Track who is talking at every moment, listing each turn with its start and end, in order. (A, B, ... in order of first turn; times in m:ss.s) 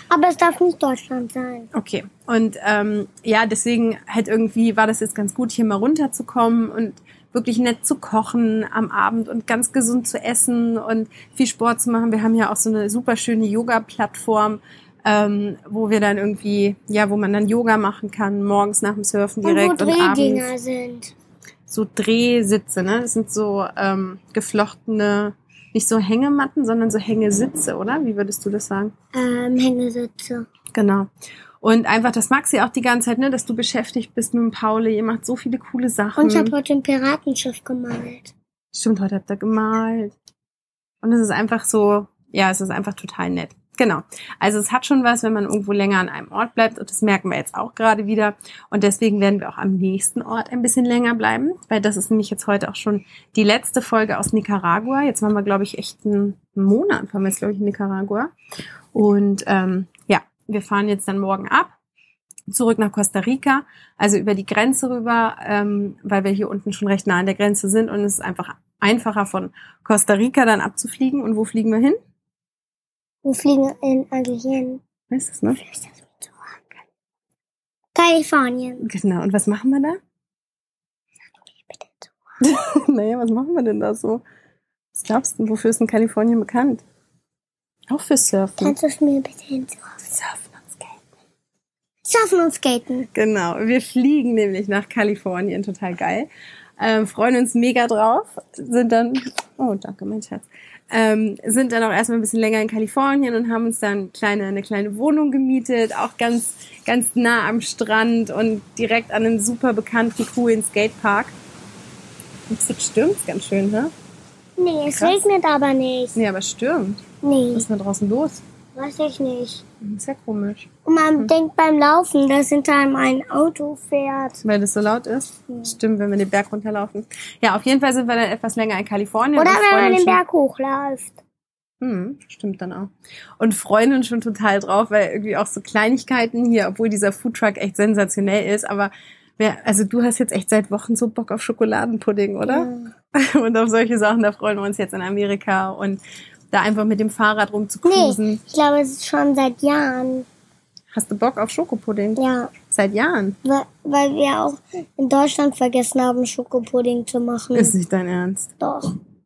0:00.1-0:01.7 A
0:01.7-0:20.5 B
0:19.4-0:21.1 A
0:21.7-0:28.9 B
0:29.1-0:30.4 A
0:30.7-0:31.1 B
0:31.6-0:36.5 B
0:36.2-0:38.3 A
0:38.7-0:40.1 B
0:41.0-0:58.3 B
0:58.9-1:01.7 B
1:02.5-1:12.0 B
1:13.2-1:14.8 A
1:15.1-1:15.6 B
1:15.6-1:16.8 A
1:17.9-1:18.8 A
1:18.8-1:20.0 B
1:21.5-1:22.1 A
1:22.4-1:24.2 B
1:24.9-1:26.8 B
1:27.9-1:28.8 B
1:28.6-1:30.1 A
1:30.1-1:31.0 B
1:32.1-1:33.1 A
1:33.1-1:36.3 B
1:36.8-1:51.3 B
1:52.5-1:53.9 B
1:54.6-1:56.2 A
1:54.9-1:55.2 B
1:56.2-1:57.0 B
1:57.2-1:57.7 A
1:57.5-1:58.4 B
1:58.7-1:59.6 A
1:59.8-2:01.3 B
2:00.8-2:04.4 A
2:04.4-2:10.2 B
2:09.4-2:11.2 A
2:11.8-2:26.0 B
2:22.4-2:22.9 A
2:26.5-2:28.4 B
2:27.8-2:30.2 A
2:30.9-2:33.4 B
2:32.2-2:32.5 A
2:33.4-2:37.7 A
2:37.5-2:38.5 B
2:38.6-2:38.9 A